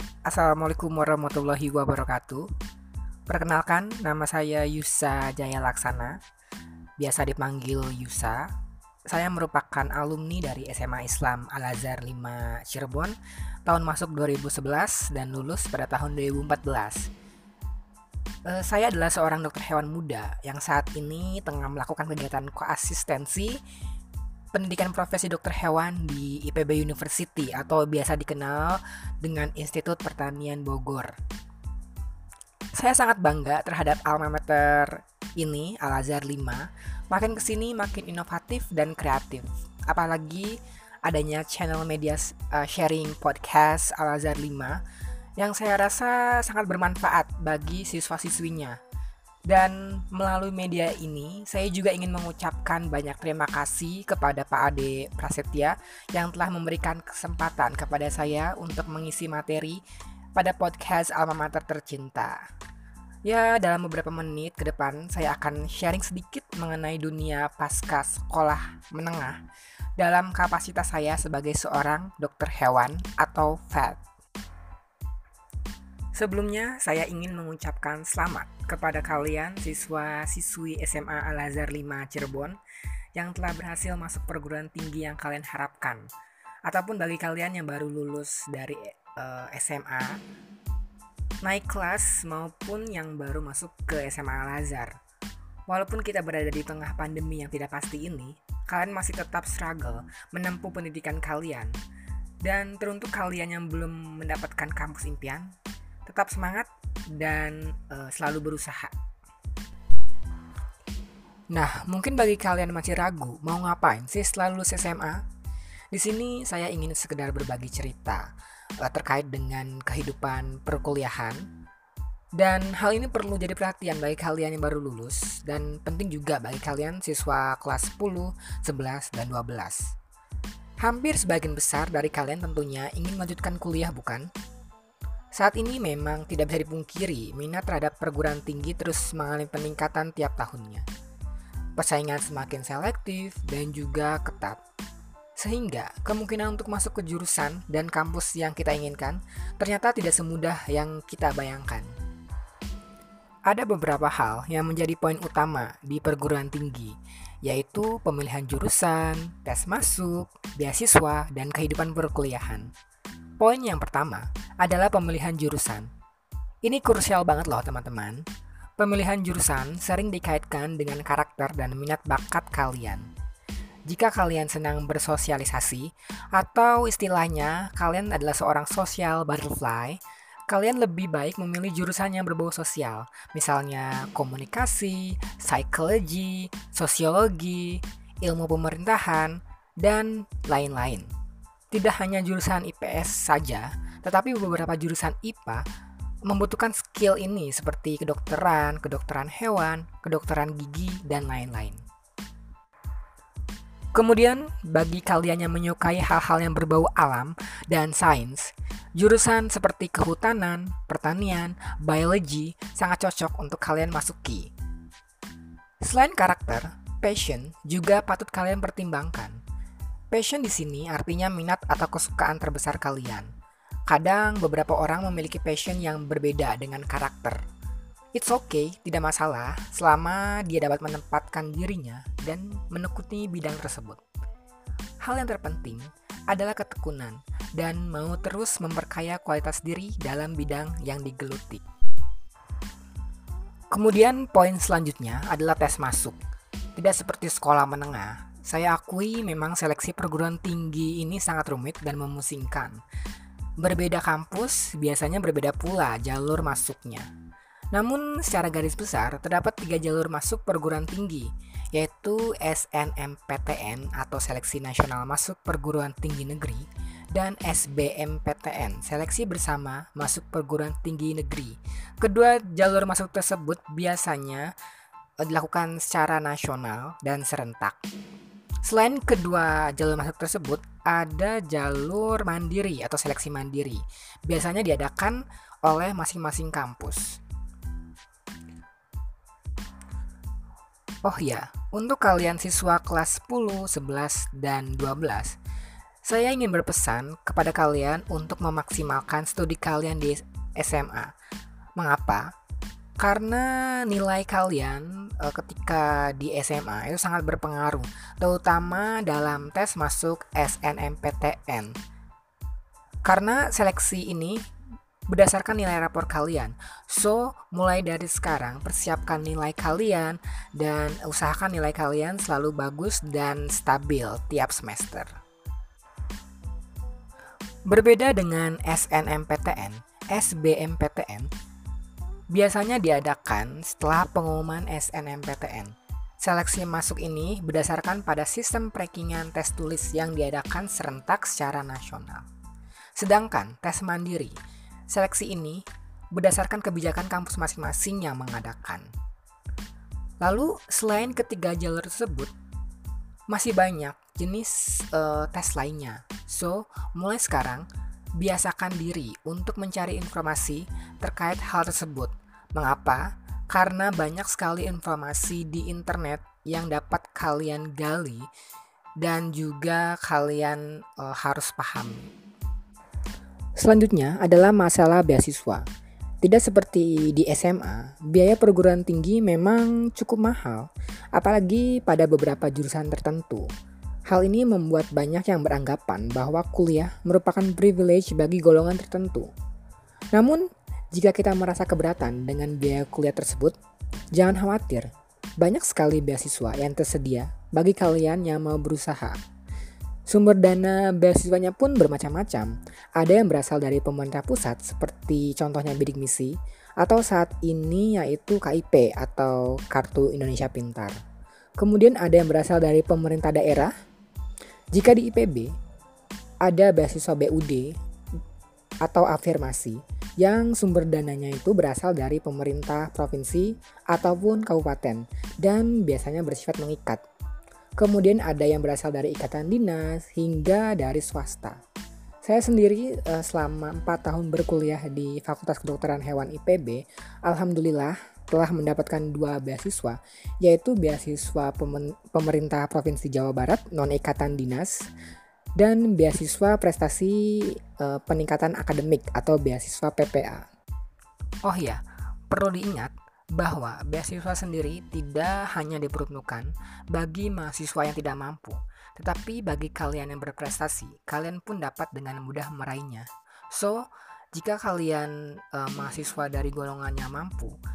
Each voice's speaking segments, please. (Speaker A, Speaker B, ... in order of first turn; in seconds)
Speaker A: 0.3-2.5, 3.3-6.2, 7.0-8.5, 9.1-17.1, 18.5-23.6, 24.5-31.1, 32.7-44.8, 45.4-48.8, 49.5-59.8, 60.4-62.5, 63.2-69.4, 70.0-74.0, 76.2-82.6, 83.2-86.1, 86.7-90.2, 91.4-95.0, 95.7-101.8, 102.4-105.5, 106.1-109.0, 111.5-115.2, 115.9-121.5, 122.4-129.9, 130.8-134.3, 135.3-140.9, 141.8-144.6, 145.4-151.9, 153.5-162.7, 163.4-165.9, 166.6-168.3, 168.8-173.1, 173.9-191.1, 191.7-195.7, 196.2-201.8, 203.9-214.5, 215.8-219.4, 220.1-223.3, 223.9-227.4, 228.1-234.0, 235.0-241.6, 243.7-246.2, 246.8-252.8, 253.6-257.1, 257.7-274.5, 275.2-277.8, 278.6-287.2, 291.0-295.4, 296.1-301.1, 301.8-302.3, 303.0-311.8, 313.1-314.4, 315.1-325.1, 327.7-331.3, 332.3-342.3, 343.0-348.9, 350.2-352.3, 353.3-357.7, 358.2-368.3, 369.0-372.1, 373.6-375.6, 376.2-383.5, 384.1-389.3, 390.1-393.6, 394.1-399.2, 400.1-411.0, 411.6-413.7, 414.7-415.5, 416.4-417.8, 418.8-427.0, 427.8-431.6, 432.2-444.9, 445.6-450.5, 451.4-467.6